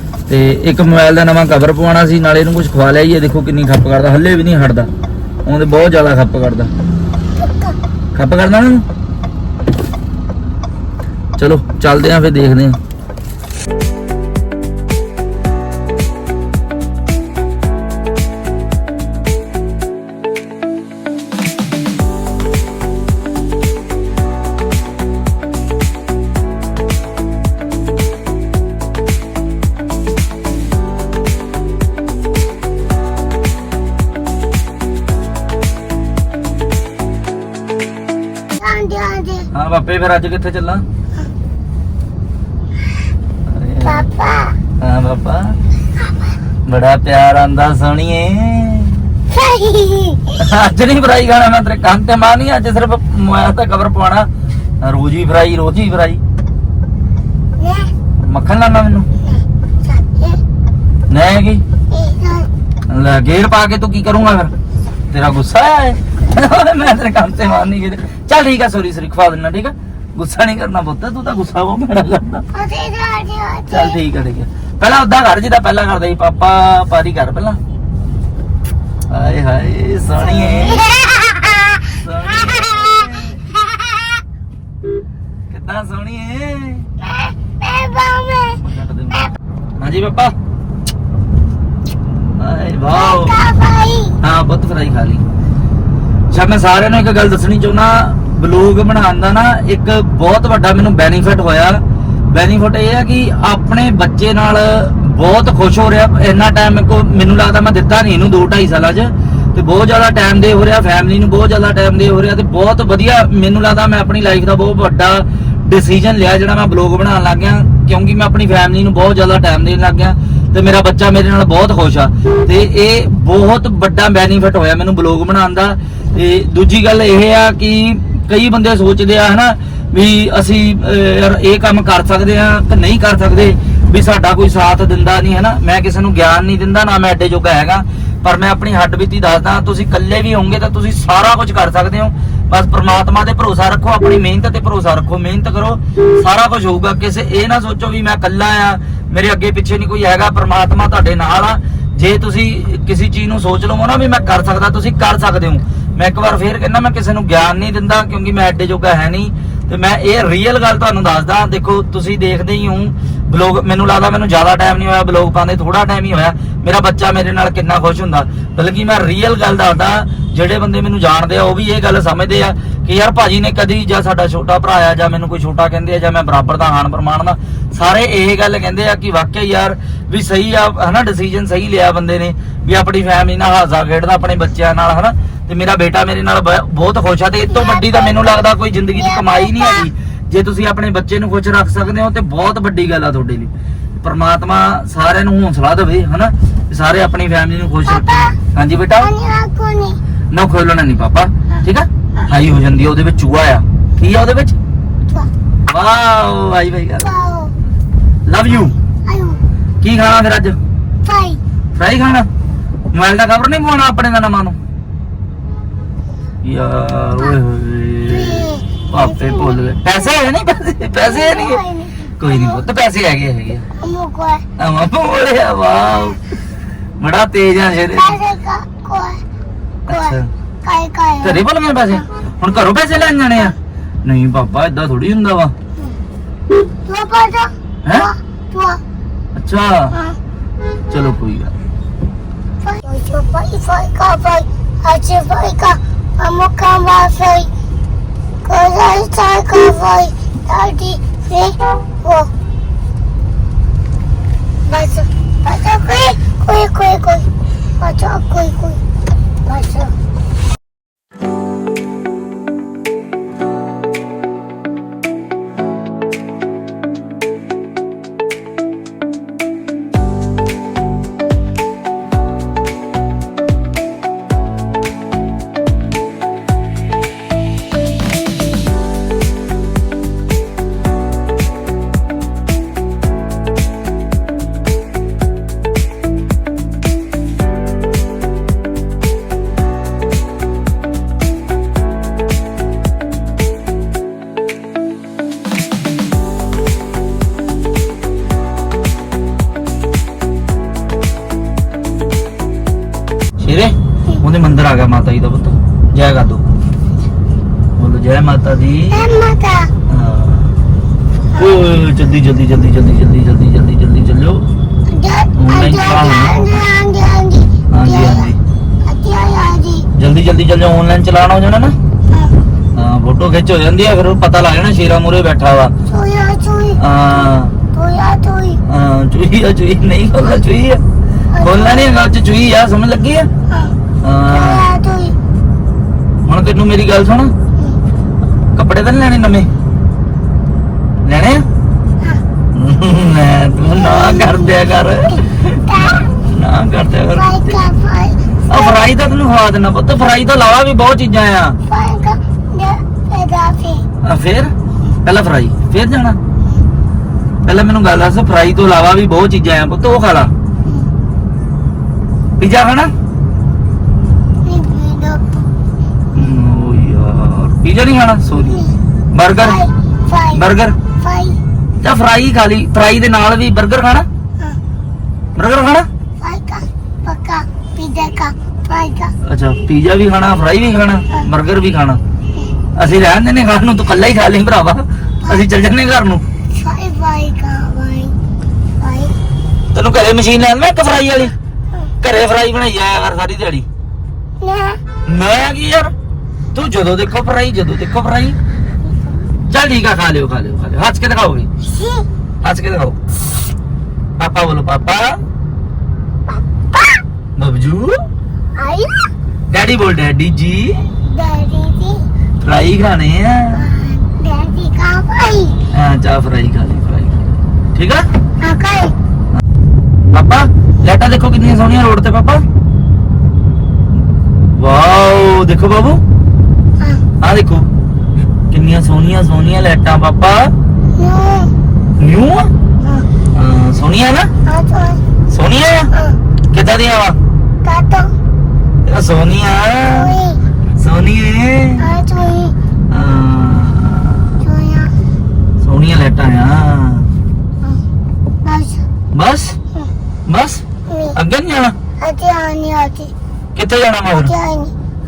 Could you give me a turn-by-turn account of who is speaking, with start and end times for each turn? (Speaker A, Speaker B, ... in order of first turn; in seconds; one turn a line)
Speaker A: 0.3-4.9
Speaker A: 5.5-6.7
Speaker B: 7.4-7.7
Speaker A: 8.1-8.8
Speaker A: 11.4-12.8
Speaker B: 38.6-39.5
Speaker A: 39.5-40.8
Speaker A: 43.5-44.1
Speaker B: 43.8-44.5
Speaker A: 44.8-45.6
Speaker A: 46.6-49.1
Speaker B: 49.3-50.3
Speaker A: 50.4-54.3
Speaker A: 54.8-56.2
Speaker B: 57.6-57.9
Speaker A: 58.2-59.1
Speaker B: 59.2-60.4
Speaker A: 61.1-61.6
Speaker B: 61.9-62.5
Speaker A: 62.9-64.5
Speaker A: 65.1-72.5
Speaker B: 72.5-74.0
Speaker A: 73.7-77.6
Speaker A: 79.1-80.9
Speaker B: 80.2-81.8
Speaker A: 81.9-83.5
Speaker B: 83.7-84.0
Speaker A: 85.5-86.9
Speaker B: 87.0-88.6
Speaker A: 88.6-90.3
Speaker A: 92.4-93.3
Speaker B: 92.9-94.2
Speaker A: 94.2-95.2
Speaker A: 96.3-199.1
Speaker B: 187.5-189.9
Speaker B: 197.8-198.3
Speaker B: 199.0-200.0
Speaker A: 200.3-204.6
Speaker A: 205.7-207.1
Speaker B: 207.0-207.5
Speaker A: 208.2-208.7
Speaker B: 208.7-209.4
Speaker A: 209.8-210.6
Speaker B: 211.0-211.4
Speaker A: 211.7-212.3
Speaker A: 212.9-214.6
Speaker A: 216.4-221.6
Speaker B: 218.1-220.0
Speaker B: 221.0-222.6
Speaker A: 222.2-223.7
Speaker B: 223.8-224.4
Speaker A: 224.6-226.2
Speaker A: 227.0-228.2
Speaker B: 227.9-229.2
Speaker A: 229.9-230.3
Speaker B: 229.9-231.4
Speaker A: 231.2-235.5
Speaker B: 236.8-238.8
Speaker A: 237.8-238.1
Speaker A: 239.3-240.0
Speaker B: 239.9-240.2
Speaker A: 240.9-241.5
Speaker B: 242.6-247.5
Speaker B: 248.4-252.3
Speaker B: 254.7-257.3
Speaker B: 257.8-258.8
Speaker B: 259.4-259.9
Speaker A: 303.4-306.4
Speaker A: 307.8-309.1
Speaker B: 308.9-309.7
Speaker A: 309.9-310.6
Speaker A: 311.3-314.4
Speaker B: 314.9-318.3
Speaker A: 315.4-316.6
Speaker A: 317.7-318.4
Speaker B: 318.8-319.9
Speaker A: 319.9-321.8
Speaker A: 322.7-325.7
Speaker B: 325.9-326.8
Speaker A: 326.8-327.6
Speaker B: 327.7-328.6
Speaker A: 328.6-330.8
Speaker B: 331.3-331.9
Speaker A: 331.4-333.3
Speaker B: 333.5-333.7
Speaker A: 334.0-334.6
Speaker B: 334.3-335.1
Speaker A: 336.2-337.3
Speaker A: 338.5-339.5
Speaker A: 341.0-341.4
Speaker A: 342.5-347.6
Speaker B: 343.7-344.6
Speaker B: 345.7-346.1
Speaker B: 347.1-348.9
Speaker A: 348.5-351.6
Speaker B: 351.7-353.8
Speaker A: 354.0-354.5
Speaker A: 355.0-356.2
Speaker A: 357.4-360.3
Speaker A: 362.4-362.9
Speaker B: 364.4-365.4
Speaker A: 366.1-369.6
Speaker B: 368.4-368.7
Speaker B: 369.4-371.4
Speaker A: 370.3-370.8
Speaker A: 371.8-374.1
Speaker A: 375.4-375.9
Speaker B: 376.2-379.1
Speaker A: 379.2-382.0
Speaker A: 382.8-386.2
Speaker B: 386.5-388.1
Speaker B: 388.8-389.1
Speaker A: 389.7-391.3
Speaker A: 392.0-393.6
Speaker B: 394.4-394.8
Speaker A: 395.1-395.9
Speaker A: 396.5-398.4
Speaker A: 399.5-401.5
Speaker B: 401.6-402.1
Speaker A: 402.4-403.0
Speaker A: 404.2-405.2
Speaker B: 406.3-407.0
Speaker A: 407.4-408.0
Speaker B: 408.6-409.1
Speaker A: 409.5-410.9
Speaker B: 411.0-412.0
Speaker A: 412.4-413.7
Speaker B: 413.5-415.6
Speaker A: 415.7-418.1
Speaker B: 418.4-418.9
Speaker A: 420.1-422.4
Speaker A: 424.5-426.0
Speaker A: 427.2-427.7
Speaker A: 428.5-430.5
Speaker B: 430.9-431.5
Speaker A: 432.0-432.5
Speaker A: 433.3-434.3
Speaker B: 434.4-435.0
Speaker A: 435.3-435.9
Speaker A: 436.5-437.2
Speaker B: 437.6-438.1
Speaker A: 438.8-440.1
Speaker B: 439.9-440.4
Speaker A: 440.8-441.9
Speaker B: 441.8-442.5
Speaker A: 442.9-444.4
Speaker B: 444.4-444.9
Speaker A: 445.6-447.1
Speaker B: 448.4-448.8
Speaker A: 449.1-449.6
Speaker A: 450.3-450.6
Speaker B: 450.9-451.1
Speaker A: 451.1-451.7
Speaker B: 452.0-453.1
Speaker A: 453.5-454.3
Speaker B: 454.1-454.7